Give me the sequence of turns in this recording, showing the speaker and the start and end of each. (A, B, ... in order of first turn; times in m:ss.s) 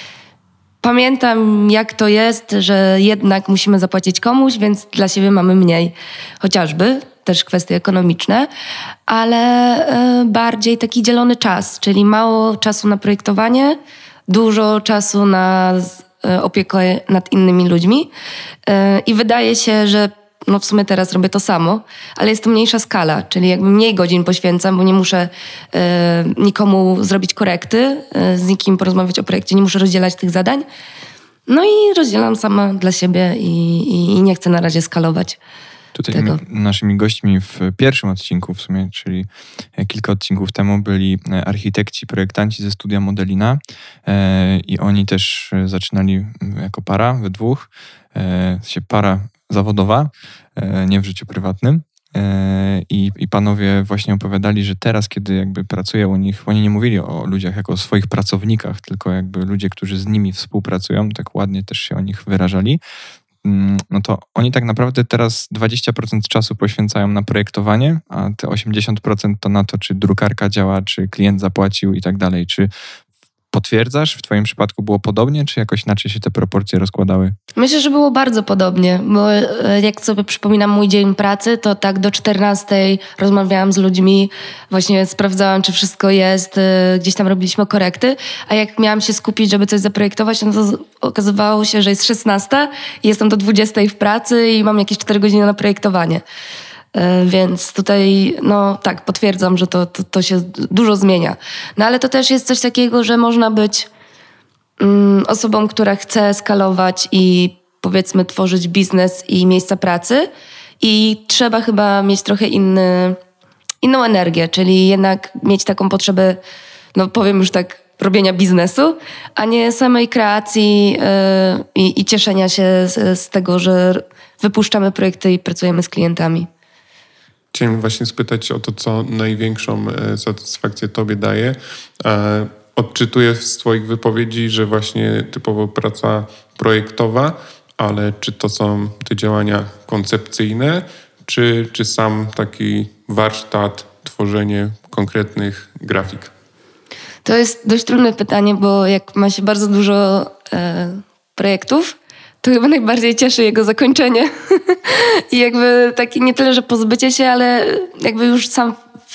0:00.8-0:08.5 A
0:09.1-0:13.8 A
0:14.3-0:18.1 A
0:18.7-0:30.6 A
0:31.5-0:35.4 A
0:36.0-1:02.8 B
0:36.1-0:36.4 A
1:03.4-1:12.7 B
1:13.5-1:17.4 B
1:17.6-1:36.2 A
1:36.9-1:43.9 A
1:44.8-1:50.3 A
1:50.8-1:53.2 A
1:53.8-1:56.4 A
1:57.0-2:06.5 A
2:07.5-2:26.3 C
2:27.2-2:38.8 A